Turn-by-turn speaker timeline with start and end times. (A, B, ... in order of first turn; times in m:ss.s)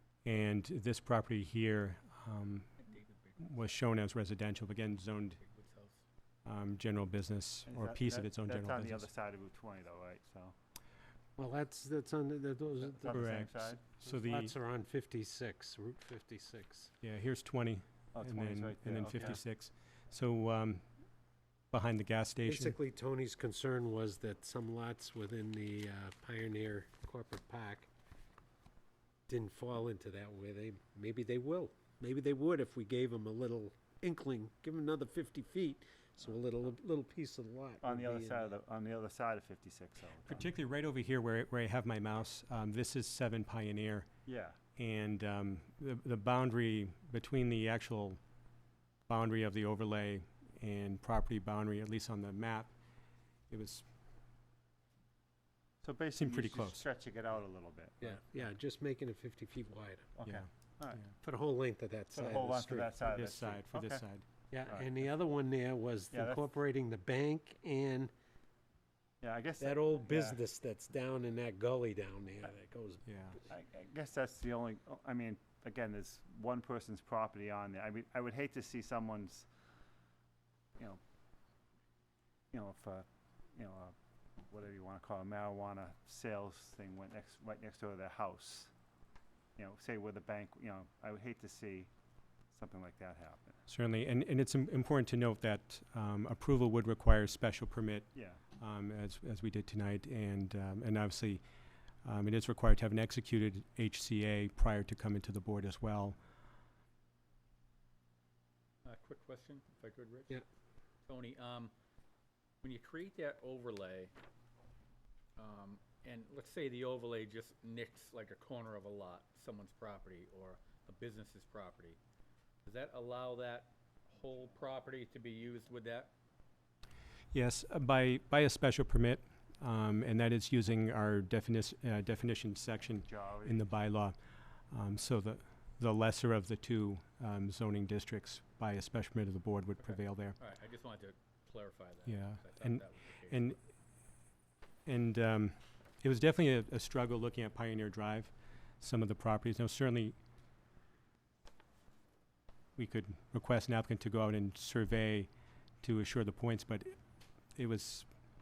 0:00.2-0:02.7 A
0:02.8-0:03.7 B
0:03.4-0:05.4 A
0:05.4-0:06.0 B
0:06.4-0:09.0 A
0:07.6-0:10.5 C
0:11.4-0:13.3 D
0:12.8-0:13.8 C
0:13.1-0:14.5 A
0:14.0-0:16.9 D
0:17.0-0:20.8 A
0:18.1-0:19.4 C
0:21.7-0:22.8 A
0:22.5-0:27.9 D
0:29.3-0:38.5 D
0:37.8-0:40.5 C
0:40.2-0:44.1 A
0:44.2-0:44.6 C
0:44.8-0:48.2 A
0:49.1-0:52.7 A
0:53.5-0:53.8 A
0:55.8-0:58.2 C
0:56.1-0:56.8 A
0:58.0-1:00.1 D
1:00.2-1:01.0 C
1:00.2-1:01.1 A
1:01.2-1:02.9 D
1:02.1-1:04.0 C
1:03.0-1:04.2 A
1:04.5-1:08.1 D
1:04.6-1:04.9 C
1:06.1-1:06.5 C
1:09.2-1:10.4 C
1:09.6-1:13.0 D
1:13.1-1:13.4 A
1:13.5-1:19.5 C
1:22.5-1:23.9 C
1:24.5-1:28.7 C
1:29.6-1:31.9 C
1:32.5-1:33.6 C
1:33.7-1:41.4 A
1:38.1-1:38.4 C
1:42.0-1:46.2 A
1:48.8-1:50.4 B
1:51.0-1:51.7 B
1:52.6-1:54.1 B
1:55.4-2:02.0 B
2:02.6-2:06.1 B
2:07.3-2:14.2 A
2:13.0-2:13.7 C
2:14.7-2:20.4 A
2:19.8-2:23.6 B
2:22.1-2:23.6 A
2:24.8-2:30.2 A
2:32.8-2:35.3 A
2:35.8-2:37.0 A
2:37.5-2:38.1 A